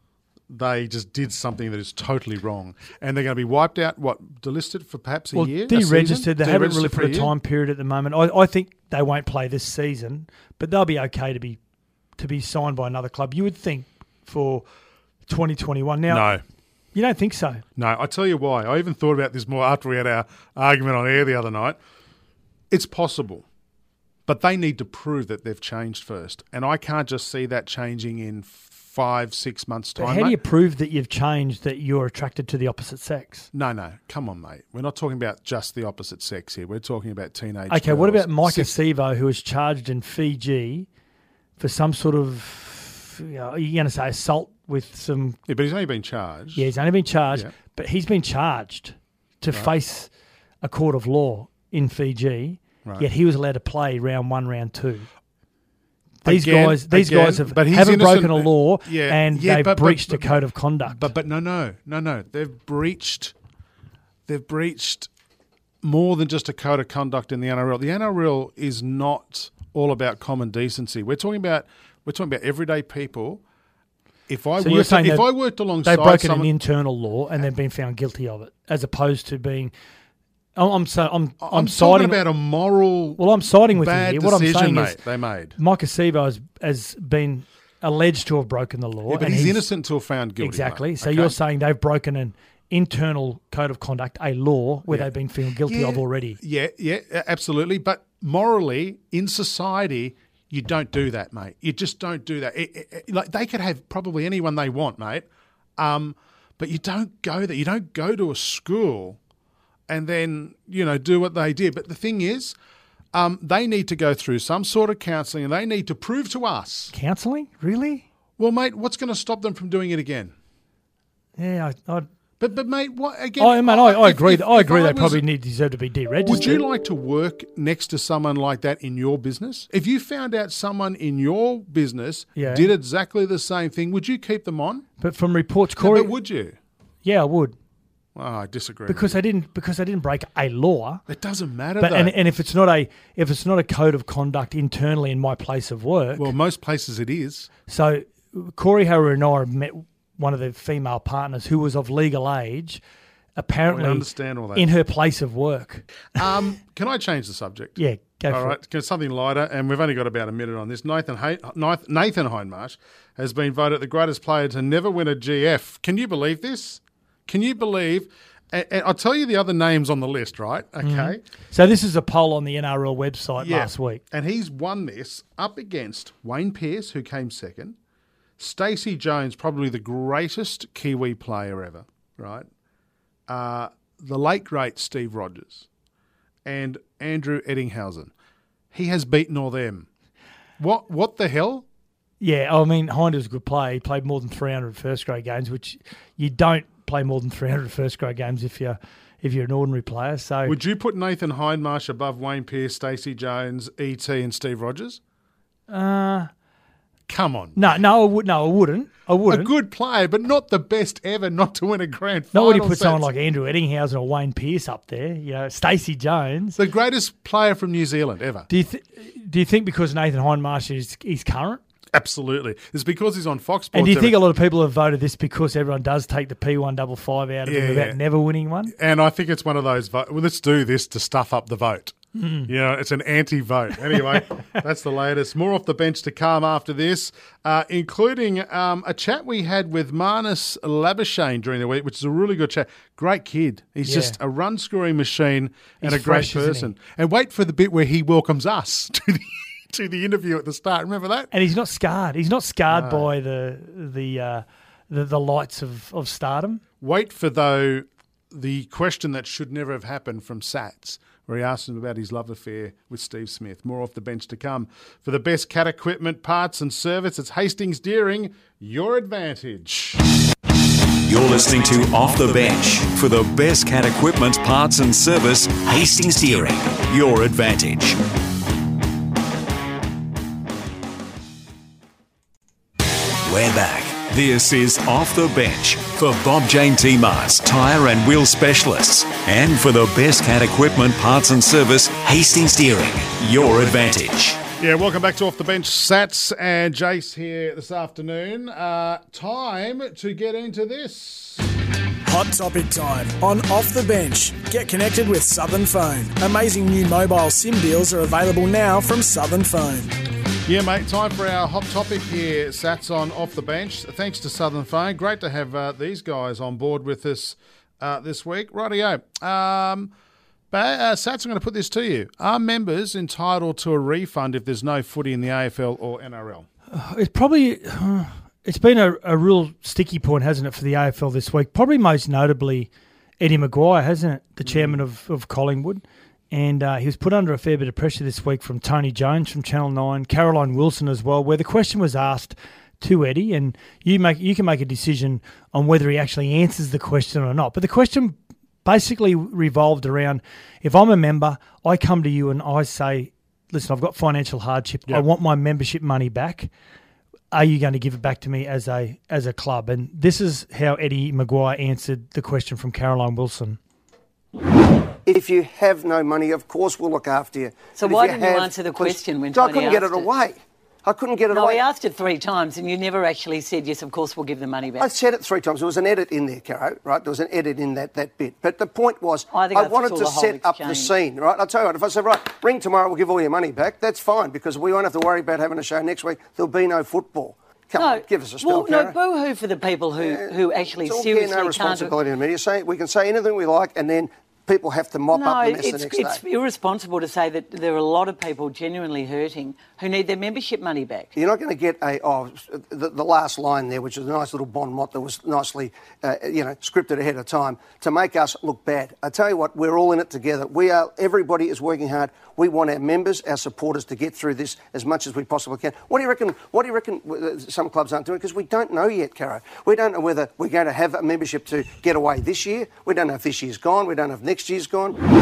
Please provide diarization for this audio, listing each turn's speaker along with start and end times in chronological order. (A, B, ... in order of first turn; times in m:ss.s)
0:00.5-0:07.3 A
0:05.3-0:11.6 B
0:12.2-0:14.6 B
0:15.3-0:16.3 B
0:16.1-0:16.4 A
0:16.9-0:17.6 B
0:17.8-0:21.8 A
0:22.7-0:23.5 A
0:24.3-0:30.4 A
0:30.0-0:33.5 B
0:33.5-0:38.8 A
0:37.7-0:40.9 B
0:41.6-0:45.4 B
0:45.5-0:46.7 A
0:46.6-0:50.1 B
0:50.6-0:55.1 B
0:56.2-1:01.1 B
0:56.2-1:03.4 A
1:04.3-1:05.1 A
1:05.8-1:13.4 A
1:14.3-1:16.5 A
1:14.6-1:19.7 B
1:20.6-1:22.2 B
1:21.4-1:23.2 A
1:23.2-1:25.0 B
1:23.7-1:25.6 A
1:25.6-1:29.6 B
1:29.1-1:31.4 A
1:30.4-1:36.4 B
1:35.6-1:49.2 A
1:49.9-1:52.6 A
1:53.1-1:56.9 A
1:56.9-1:58.0 B
1:58.4-2:00.3 A
2:01.4-2:02.1 B
2:02.4-2:05.2 A
2:03.4-2:06.6 B
2:06.3-2:14.9 A
2:12.4-2:12.7 B
2:15.0-2:16.1 B
2:15.8-2:16.6 A
2:17.0-2:17.6 B
2:18.2-2:19.2 A
2:18.9-2:21.0 B
2:21.1-2:22.2 A
2:21.8-2:26.3 B
2:26.2-2:27.5 A
2:27.7-2:32.8 B
2:33.4-2:35.9 B
2:33.7-2:34.7 A
2:36.2-2:37.8 A
2:37.8-2:38.6 B
2:38.3-2:51.2 A
2:50.8-2:54.0 B
2:53.4-2:57.8 A
2:58.4-3:02.5 A
3:03.3-3:05.7 A
3:06.4-3:08.1 A
3:08.7-3:09.9 A
3:10.6-3:11.7 A
3:12.2-3:20.6 B
3:20.5-3:25.0 A
3:25.7-3:26.3 B
3:27.1-3:27.8 A
3:27.6-3:29.5 B
3:29.3-3:33.1 A
3:32.3-3:36.6 B
3:36.6-3:38.5 A
3:38.5-3:41.6 B
3:41.9-3:44.2 A
3:43.7-3:48.7 B
3:47.5-3:48.0 A
3:48.7-3:52.0 A
3:52.2-3:52.5 B
3:52.5-4:11.3 A
4:03.8-4:04.2 B
4:05.8-4:06.7 B
4:11.3-4:16.6 B
4:12.7-4:13.1 A
4:16.8-4:30.0 A
4:31.1-4:38.0 C
4:43.2-4:54.4 C
4:54.6-5:01.5 A
5:02.1-5:10.0 D
5:10.5-5:19.9 A
5:20.5-5:26.5 A
5:26.7-5:56.5 B
5:34.4-5:34.8 A
5:57.3-6:03.6 B
6:05.1-6:11.6 E
6:07.7-6:10.1 F
6:11.3-6:14.9 F
6:14.8-6:29.0 E
6:19.3-6:20.9 F
6:27.8-6:32.0 F
6:30.0-6:36.2 E
6:35.1-6:41.1 F
6:41.2-7:05.0 E